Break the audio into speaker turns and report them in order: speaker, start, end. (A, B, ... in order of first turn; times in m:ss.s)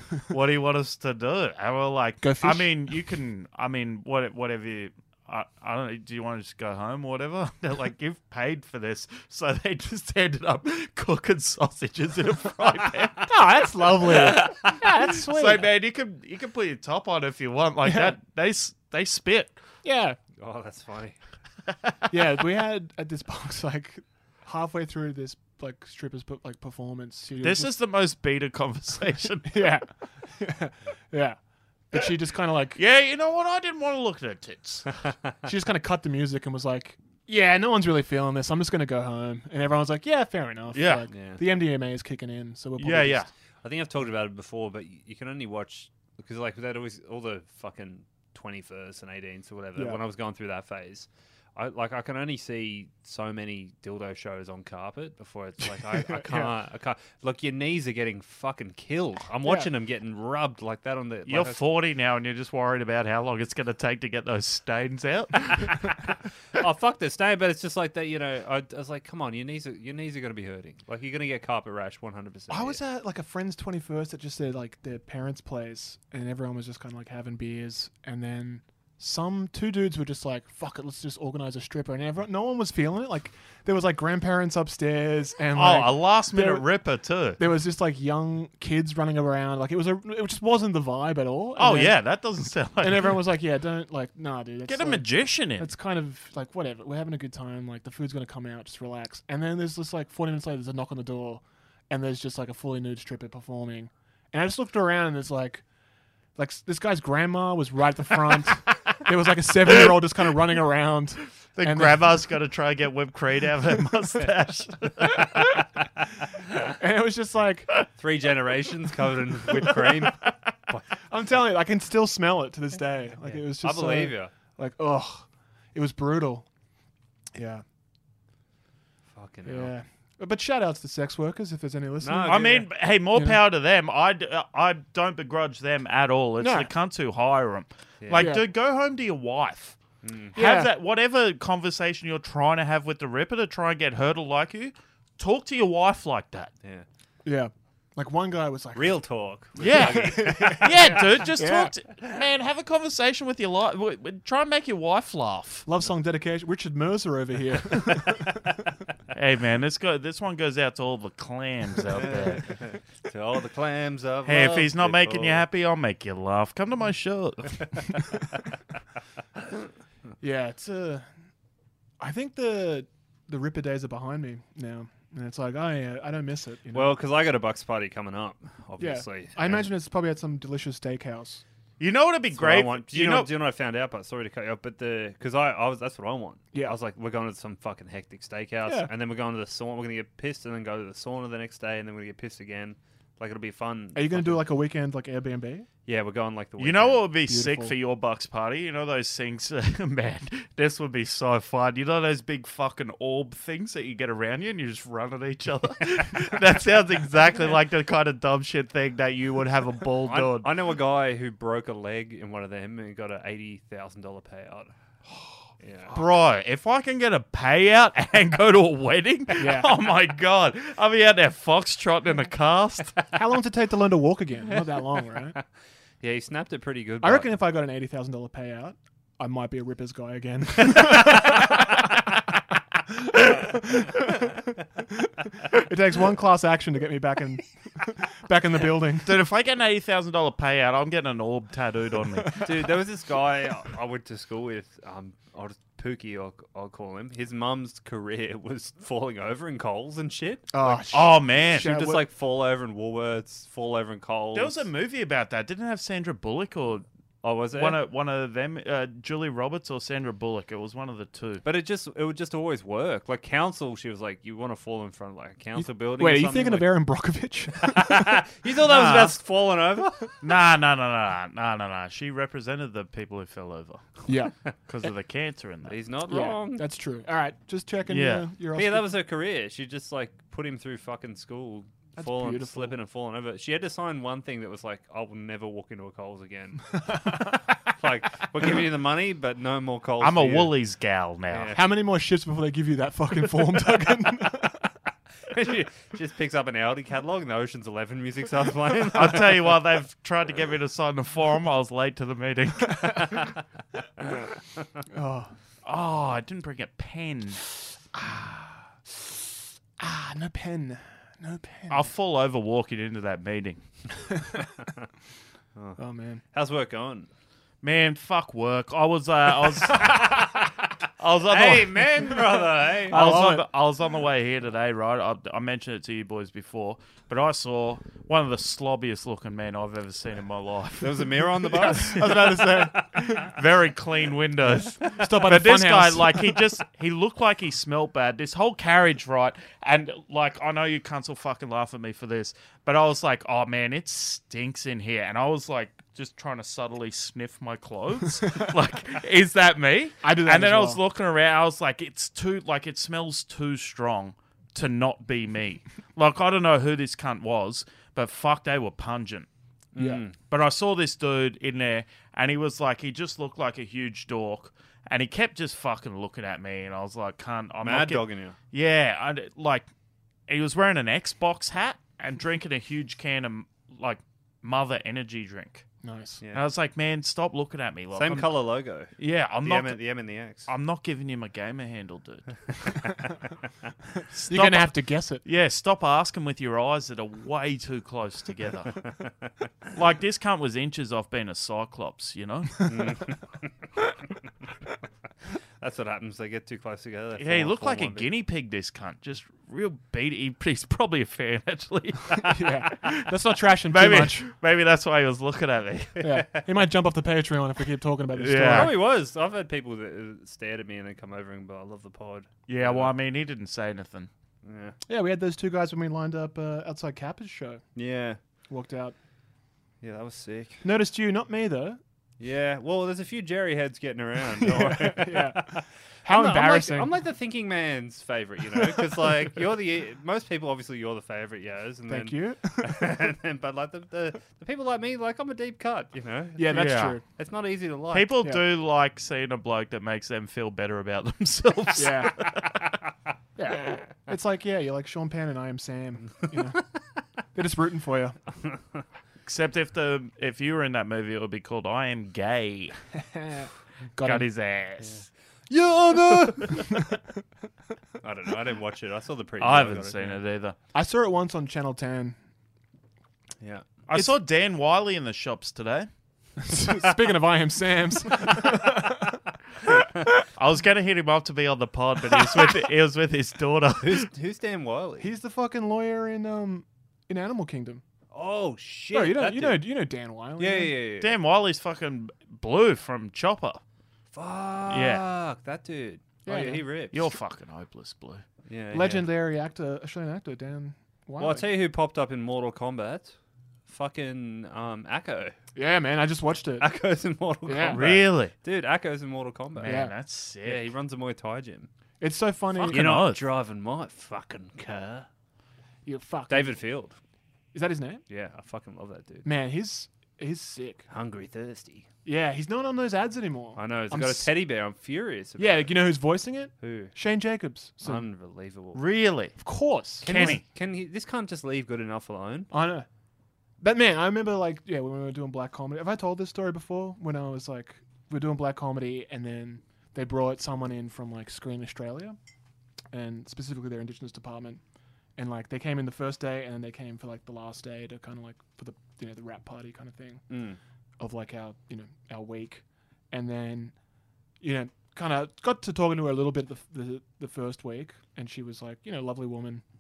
0:00.2-0:13.3 A
0:02.2-0:02.9 B
0:13.3-0:15.7 B
0:14.1-0:14.7 A
0:15.2-0:19.6 A
0:17.8-0:18.2 B
0:19.8-0:20.2 B
0:20.4-0:21.2 C
0:22.1-0:27.7 B
0:27.4-0:29.7 A
0:29.5-0:31.4 B
0:31.9-0:32.8 B
0:32.8-0:34.9 A
0:35.4-0:43.3 B
0:40.7-0:41.0 A
0:41.1-0:41.4 C
0:42.8-0:43.3 A
0:43.6-1:01.6 C
0:55.9-0:56.5 B
1:01.3-1:06.0 A
1:06.5-1:12.8 C
1:12.5-1:26.7 B
1:25.5-1:27.4 A
1:27.4-1:32.0 B
1:31.6-1:33.2 A
1:32.8-1:45.6 B
1:34.7-1:35.7 A
1:46.4-1:52.0 B
1:51.6-1:55.5 A
1:56.8-1:57.7 B
1:58.0-2:00.8 C
2:01.1-2:06.5 B
2:03.2-2:04.3 C
2:07.4-2:07.6 B
2:09.1-2:09.7 C
2:09.5-2:13.4 B
2:12.0-2:12.7 C
2:12.2-2:19.8 A
2:16.4-2:16.7 B
2:18.0-2:18.3 C
2:18.2-2:18.4 B
2:20.0-2:20.4 C
2:20.3-2:26.5 A
2:20.4-2:20.7 B
2:27.2-2:29.0 B
2:28.8-2:31.1 C
2:29.6-2:35.7 A
2:29.6-2:31.7 B
2:35.7-2:38.3 B
2:39.1-2:42.4 A
2:41.9-2:45.4 C
2:44.2-2:48.0 A
2:50.2-2:51.1 B
2:52.0-2:57.0 B
2:56.7-2:59.7 C
2:58.8-3:01.4 B
3:01.8-3:03.3 A
3:02.3-3:14.5 C
3:14.0-3:15.7 B
3:15.8-3:17.1 C
3:16.6-3:30.5 A
3:17.3-3:17.8 B
3:30.0-3:34.7 C
3:35.6-3:35.9 C
3:35.9-3:43.0 A
3:39.4-3:39.7 B
3:43.1-3:45.4 B
3:46.0-3:47.3 C
3:47.0-3:51.8 B
3:52.9-3:59.2 B
3:59.0-4:02.4 A
4:02.4-4:14.7 C
4:10.5-4:12.0 B
4:10.9-4:11.7 A
4:14.3-4:16.9 A
4:17.2-4:17.8 C
4:17.5-4:21.4 A
4:21.4-4:26.8 C
4:25.6-4:28.2 B
4:27.6-4:30.2 C
4:28.6-4:29.2 A
4:30.2-4:34.0 A
4:34.1-4:34.3 B
4:34.7-4:35.8 A
4:35.7-4:36.7 C
4:36.1-4:38.9 B
4:37.9-4:38.3 A
4:38.6-4:50.6 C
4:42.0-4:42.8 B
4:50.0-4:51.6 A
4:51.3-4:51.6 C
4:51.5-4:54.6 B
4:55.3-4:59.5 C
4:58.9-5:03.3 A
5:04.9-5:05.3 B
5:05.6-5:07.4 A
5:07.9-5:08.6 B
5:09.8-5:11.9 B
5:11.7-5:13.6 A
5:15.8-5:16.2 B
5:16.3-5:17.1 C
5:17.6-5:20.2 A
5:19.7-5:20.4 C
5:21.0-5:22.2 A
5:21.3-5:23.1 C
5:22.9-5:59.3 A
5:22.9-5:23.5 B
5:30.8-5:32.8 C
5:31.6-5:33.3 B
5:34.9-5:36.4 B
5:50.0-5:50.8 B
5:59.8-6:00.2 C
5:59.8-6:00.0 B
6:00.3-6:09.7 A
6:07.6-6:08.4 C
6:10.3-6:15.6 A
6:15.8-6:16.2 B
6:16.3-6:18.3 A
6:17.9-6:20.5 C
6:19.0-6:19.8 A
6:20.5-6:22.3 A
6:24.1-6:28.8 A
6:24.3-6:25.2 B
6:29.7-6:32.7 A
6:32.7-6:33.5 C
6:35.6-6:38.1 C
6:37.2-6:43.0 A
6:42.2-6:44.3 B
6:43.7-6:46.0 A
6:46.0-6:48.7 B
6:48.2-6:48.7 A
6:48.4-6:52.9 C
6:52.5-6:54.1 A
6:54.4-6:54.8 C
6:54.9-6:57.6 B
6:57.8-6:58.2 C
6:58.5-6:59.0 B
6:59.8-7:00.6 C
7:00.6-7:01.8 B
7:02.2-7:18.1 C
7:04.4-7:06.9 B
7:11.9-7:13.0 B
7:16.4-7:17.0 B
7:16.5-7:17.0 A
7:17.9-7:22.7 A
7:21.8-7:22.2 B
7:23.4-7:26.6 B
7:27.3-7:28.2 B
7:28.4-7:28.8 C
7:29.2-7:32.8 A
7:33.0-7:34.3 B
7:34.0-7:35.0 A
7:34.8-7:36.8 C
7:38.0-7:40.2 C
7:39.4-7:40.6 A
7:40.7-7:42.2 B
7:43.9-7:45.9 A
7:46.4-7:49.2 B
7:50.3-7:54.1 A
7:53.8-7:55.1 C
7:55.0-7:57.8 B
7:58.1-7:59.7 C
7:58.9-8:00.7 B
8:00.4-8:01.1 C
8:01.0-8:03.6 A
8:04.1-8:07.1 C
8:04.7-8:05.0 A
8:06.3-8:06.6 B
8:06.9-8:08.2 A
8:08.5-8:09.1 C
8:08.7-8:11.5 B
8:11.2-8:13.1 C
8:13.7-8:15.4 C
8:15.6-8:16.7 B
8:16.6-8:19.9 C
8:17.5-8:17.8 B
8:17.7-8:18.3 A
8:19.6-8:20.6 A
8:19.6-8:19.9 B
8:20.4-8:21.7 C
8:22.0-8:22.9 B
8:22.6-8:25.1 C
8:22.7-8:23.2 A
8:25.9-8:26.6 B
8:26.3-8:27.0 C
8:27.5-8:28.0 B
8:28.1-8:29.3 C
8:29.2-8:30.9 B
8:30.9-8:31.9 C
8:32.0-8:34.3 B
8:33.6-8:35.8 C
8:35.4-8:38.1 B
8:36.6-8:36.9 C
8:37.8-8:38.8 C
8:38.7-8:39.4 A
8:39.4-8:40.4 B
8:40.0-8:40.4 A
8:40.0-8:42.5 C
8:42.5-8:42.9 B
8:43.6-8:52.2 B
8:52.9-8:54.6 B
8:55.2-9:00.2 B
9:00.3-9:00.6 C
9:01.0-9:03.7 B
9:04.4-9:09.6 B